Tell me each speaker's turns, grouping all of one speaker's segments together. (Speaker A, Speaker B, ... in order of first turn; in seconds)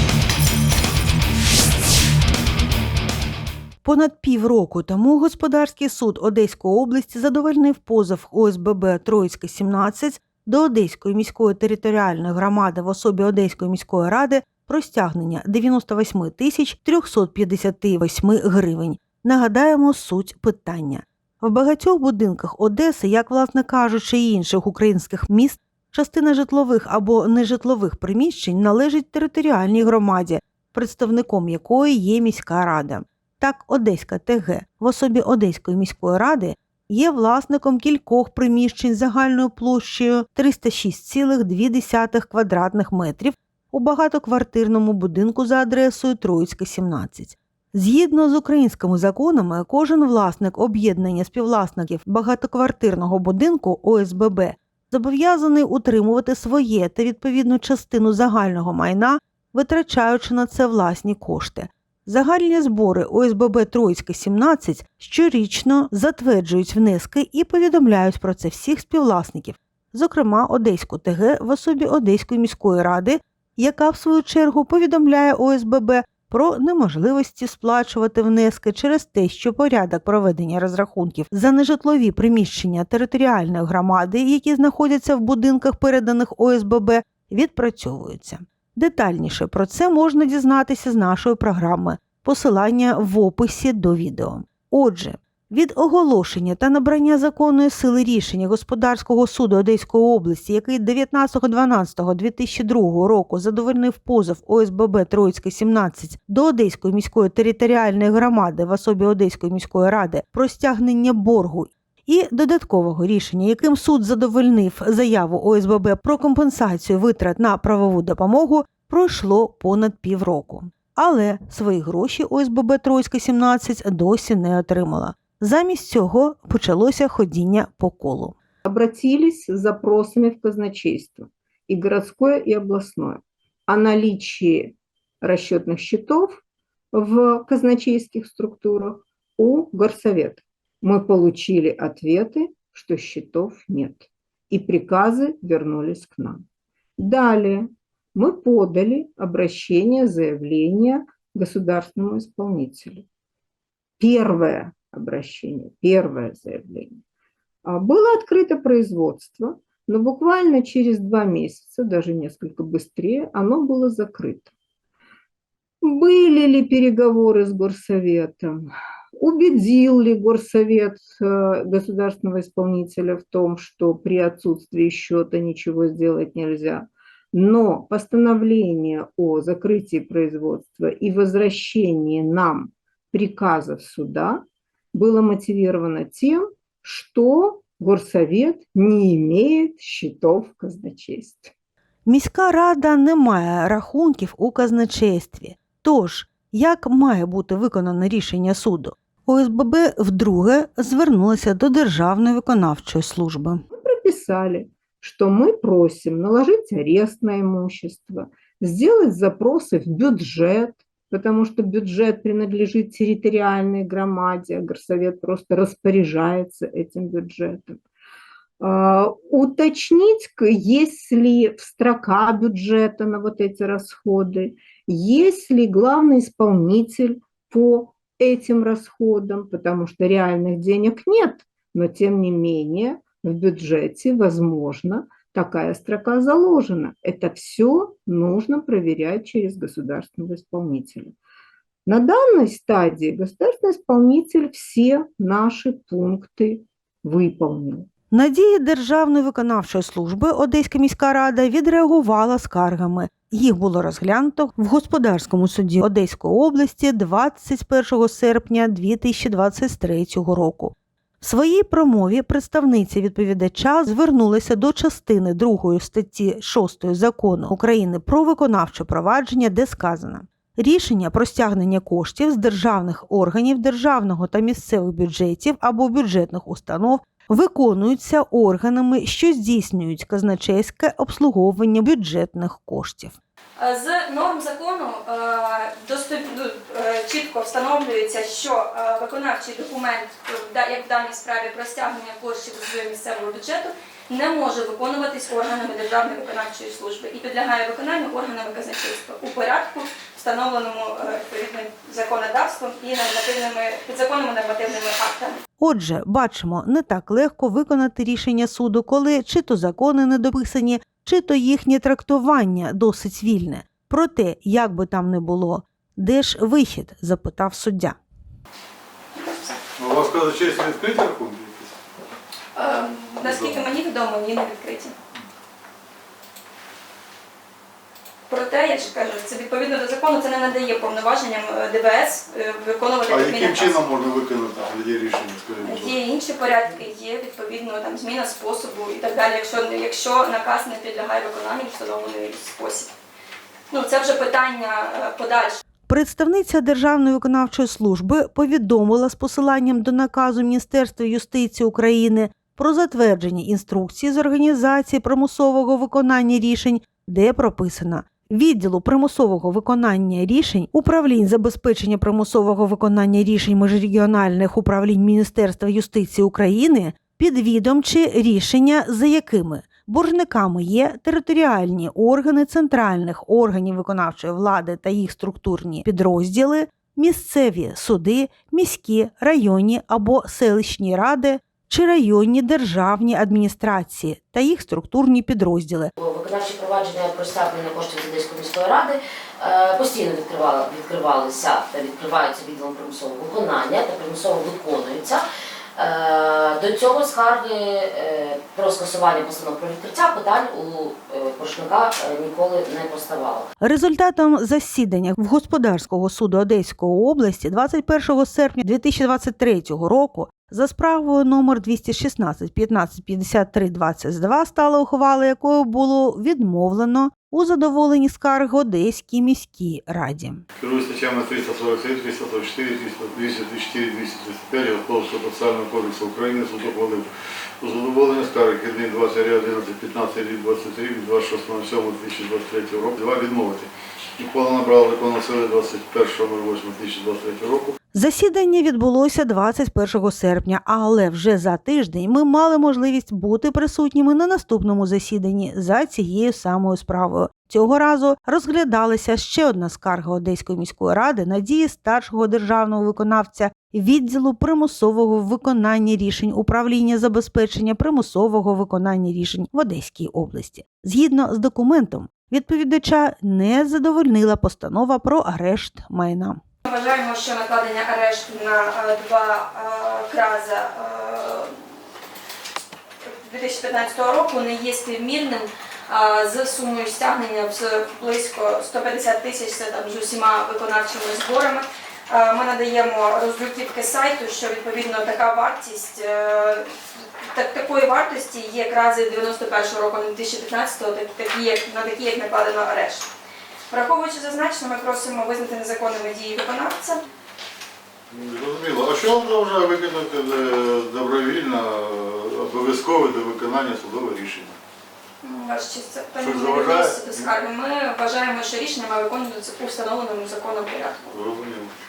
Speaker A: 3.8-128.3, 192.1-203.6, 248.1-283.2, 305.6-318.0, 345.9-385.9, 403.6-420.4, 437.9-466.4
Speaker B: 128.6-136.4, 136.9-146.4, 147.0-153.0, 154.0-157.0, 157.6-164.5, 165.8-191.5, 203.7-217.8, 218.6-241.1, 241.8-247.9
Speaker C: 283.6-305.4, 319.1-319.6, 322.5-324.9, 328.3-333.8, 335.6-342.9, 343.7-345.6, 466.6-471.5, 473.2-493.1, 493.7-497.0, 505.2-511.0
Speaker D: 319.8-321.8, 323.2-323.7, 333.1-336.0, 420.6-427.1, 427.6-437.7, 498.1-504.6, 506.2-507.3, 511.1-511.7
Speaker E: 386.0-403.5